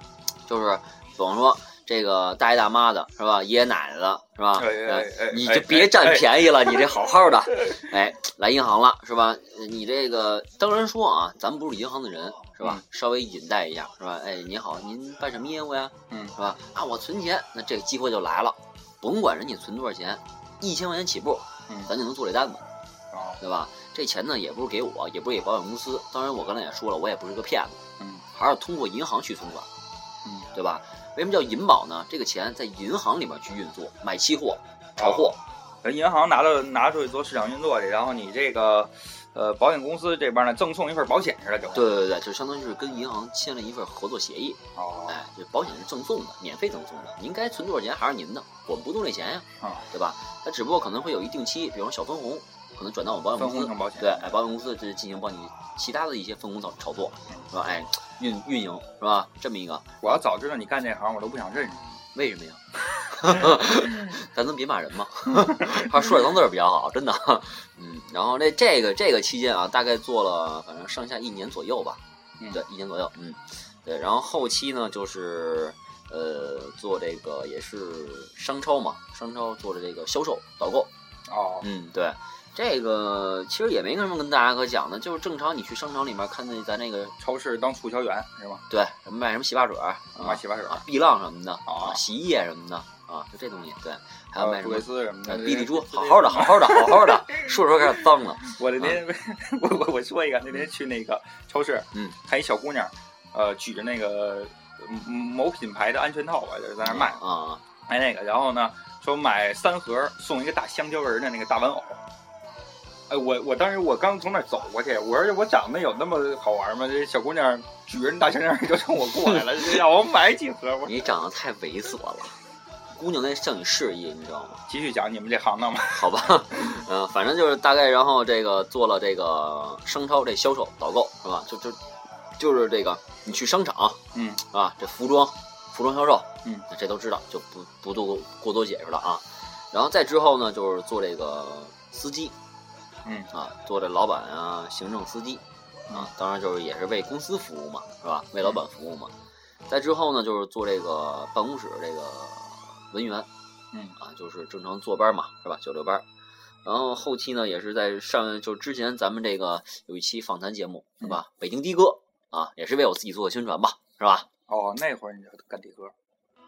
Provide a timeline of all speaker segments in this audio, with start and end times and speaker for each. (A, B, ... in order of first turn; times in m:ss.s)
0:00.5-0:22.7 A
0:04.6-0:06.7 B
0:23.1-0:23.4 B
0:23.4-0:27.8 A
0:28.3-0:29.7 A
0:30.5-0:35.4 A
0:35.0-0:42.0 B
0:41.7-1:00.1 A
0:44.8-0:45.2 B
0:53.4-0:54.4 B
1:00.0-1:01.9 B
1:02.1-1:12.0 A
1:03.2-1:03.6 B
1:05.4-1:05.9 B
1:12.5-1:20.9 A
1:21.3-1:21.7 B
1:21.6-1:27.2 A
1:27.2-1:28.6 B
1:28.7-1:39.0 A
1:30.2-1:30.8 B
1:31.7-1:32.0 B
1:34.4-1:47.2 B
1:46.8-1:47.6 A
1:47.9-1:52.0 B
1:53.1-2:01.1 B
2:00.8-2:02.4 A
2:03.0-2:04.6 A
2:04.7-2:06.8 B
2:05.9-2:11.8 A
2:12.4-2:22.4 A
2:14.1-2:14.4 B
2:23.0-2:23.3 B
2:23.3-2:29.1 A
2:29.7-2:33.3 A
2:34.0-2:36.0 A
2:36.6-2:44.3 A
2:44.5-2:45.9 B